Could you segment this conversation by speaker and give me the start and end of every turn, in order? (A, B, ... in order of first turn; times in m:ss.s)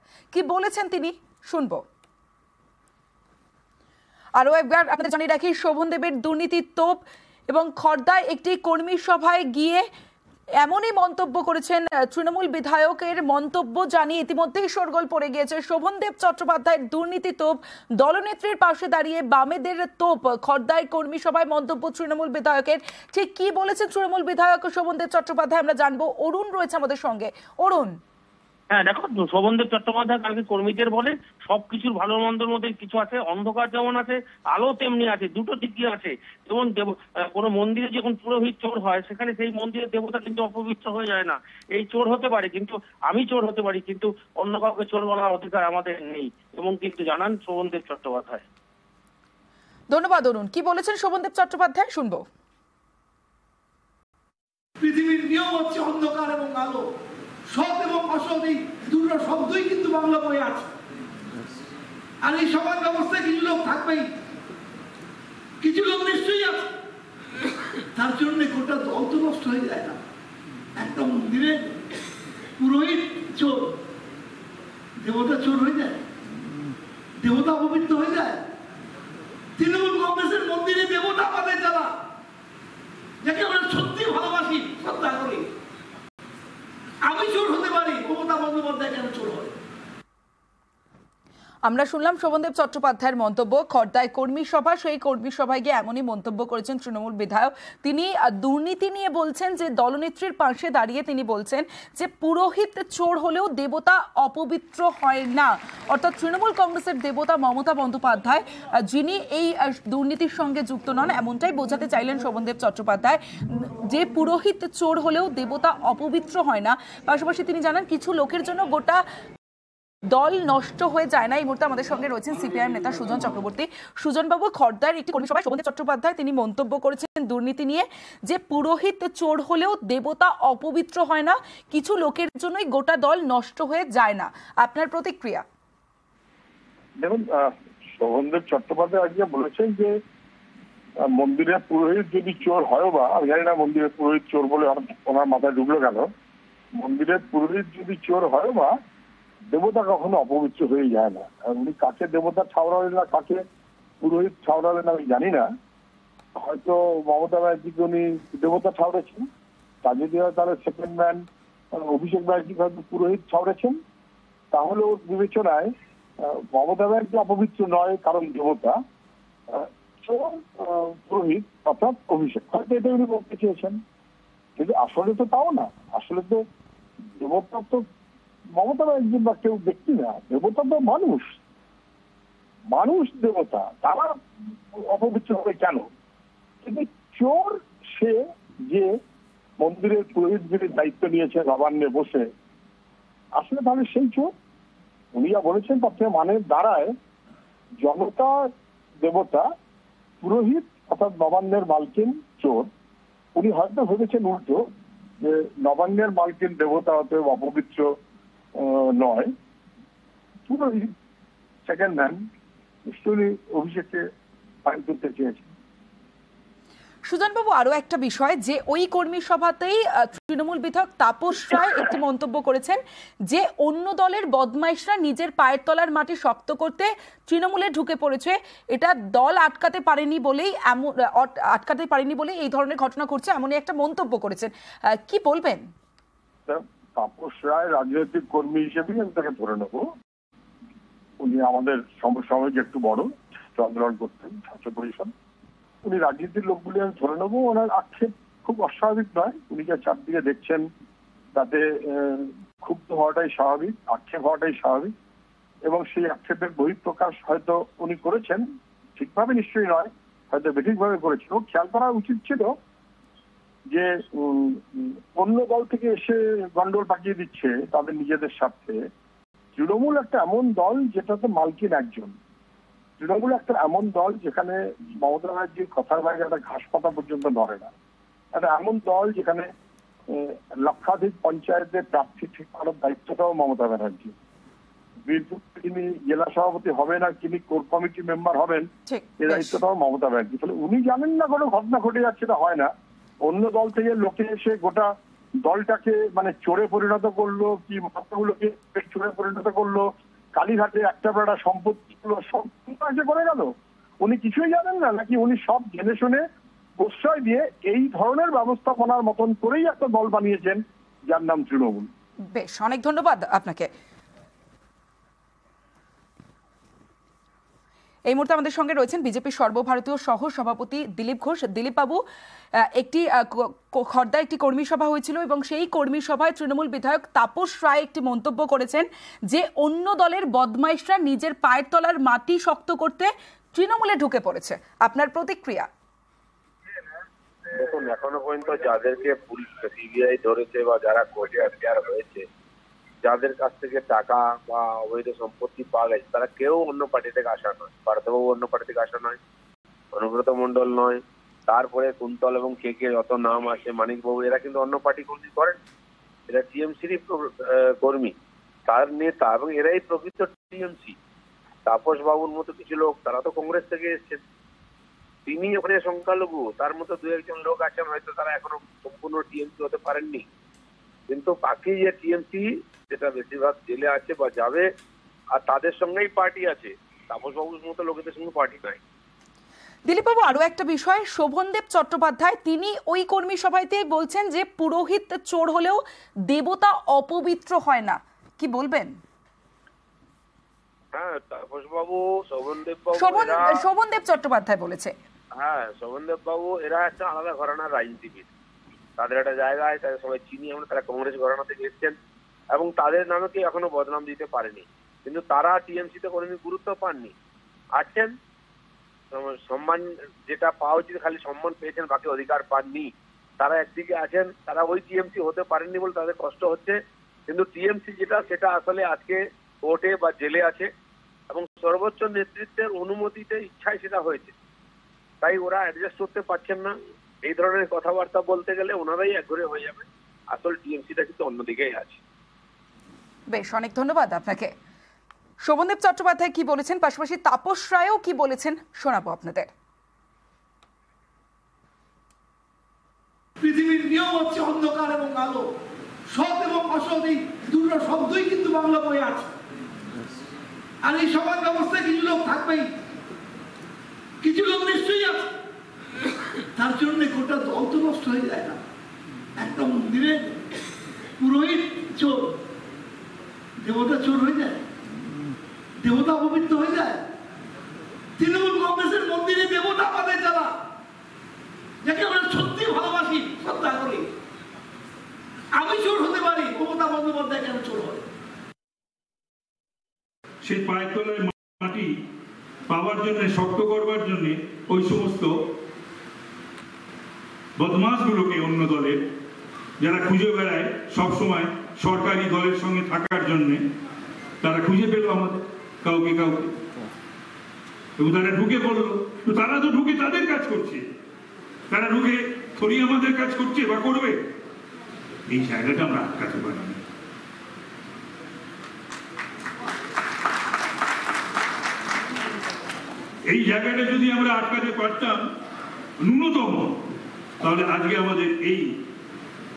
0:00.3-0:01.8 A
0:04.4-0:09.9 A
0:10.6-0:27.9 A
0:28.7-0:48.4 B
0:49.9-0:52.2 A
0:54.8-0:56.8 C
0:57.5-1:00.7 C
1:02.2-1:04.1 C
1:05.6-1:06.7 C
1:08.0-1:10.0 C
1:10.8-1:11.8 C
1:12.6-1:13.8 C
1:15.0-1:16.0 C
1:17.2-1:18.4 C
1:19.6-1:21.9 C
1:23.2-1:25.5 C
1:27.0-1:29.5 C
1:31.7-1:59.0 A
2:00.1-2:15.4 A
2:17.0-2:19.9 D
2:21.0-2:26.1 D
2:26.8-2:28.8 D
2:29.5-2:33.4 D
2:34.0-2:35.5 D
2:36.4-2:39.2 D
2:39.8-2:43.8 D
2:44.5-2:45.7 D
2:46.2-2:48.8 D
2:49.5-2:53.8 D
2:54.6-2:56.4 D
2:57.2-2:57.8 D
2:58.6-3:01.4 D
3:02.7-3:04.2 D
3:04.7-3:05.8 D
3:06.6-3:08.9 D
3:09.6-3:12.2 D
3:13.4-3:14.3 D
3:15.2-3:16.9 D
3:17.8-3:18.4 D
3:19.0-3:19.5 D
3:20.2-3:22.7 D
3:23.3-3:24.6 D
3:25.2-3:27.9 D
3:28.6-3:29.3 D
3:30.5-3:30.9 D
3:31.7-3:32.2 D
3:32.9-3:34.0 D
3:34.7-3:35.5 D
3:37.0-3:55.6 A
3:56.5-3:59.9 D
4:01.2-4:05.1 D
4:05.8-4:10.7 D
4:11.4-4:14.9 D
4:15.7-4:18.4 D
4:19.0-4:22.5 D
4:23.7-4:28.8 D
4:29.5-4:32.1 D
4:33.0-4:37.7 D
4:38.3-4:39.4 D
4:40.1-4:44.1 D
4:45.0-4:48.6 D
4:48.9-4:49.6 A
4:49.2-4:52.7 D
4:53.3-4:54.9 D
4:55.4-4:59.8 D
5:00.4-5:03.5 D
5:04.0-5:06.2 D
5:06.8-5:11.9 D
5:12.3-5:13.7 A
5:18.1-5:22.0 A
5:22.8-5:35.7 A
5:37.5-5:42.2 E
5:43.0-5:49.2 E
5:49.9-5:55.6 E
5:56.3-5:58.1 E
5:58.7-6:00.9 E
6:01.6-6:04.2 E
6:05.2-6:10.2 E
6:11.1-6:14.6 E
6:15.4-6:18.8 E
6:19.8-6:29.0 A
6:30.9-6:33.6 E
6:32.9-6:34.9 A
6:35.4-6:38.3 E
6:39.0-6:42.0 E
6:42.5-6:47.1 E
6:47.8-6:48.1 E
6:49.1-6:56.8 E
6:57.3-7:00.7 E
7:01.3-7:04.3 E
7:05.2-7:12.0 E
7:13.3-7:14.5 A
7:15.4-7:19.5 A
7:23.4-7:25.4 C
7:26.1-7:29.3 C
7:30.8-7:32.7 C
7:34.2-7:35.3 C
7:36.6-7:38.6 C
7:39.4-7:40.6 C
7:41.2-7:42.4 C
7:43.6-7:44.6 C
7:45.8-7:47.0 C
7:48.2-7:50.5 C
7:51.8-7:54.1 C
7:55.5-7:58.0 C
8:00.4-8:01.9 F
8:02.7-8:05.3 F
8:07.6-8:09.0 F
8:09.8-8:13.6 F
8:14.4-8:16.5 F
8:18.0-8:20.8 F
8:21.7-8:24.2 F
8:25.3-8:26.8 F
8:33.3-8:35.2 F
8:36.0-8:36.8 F
8:37.4-8:38.7 F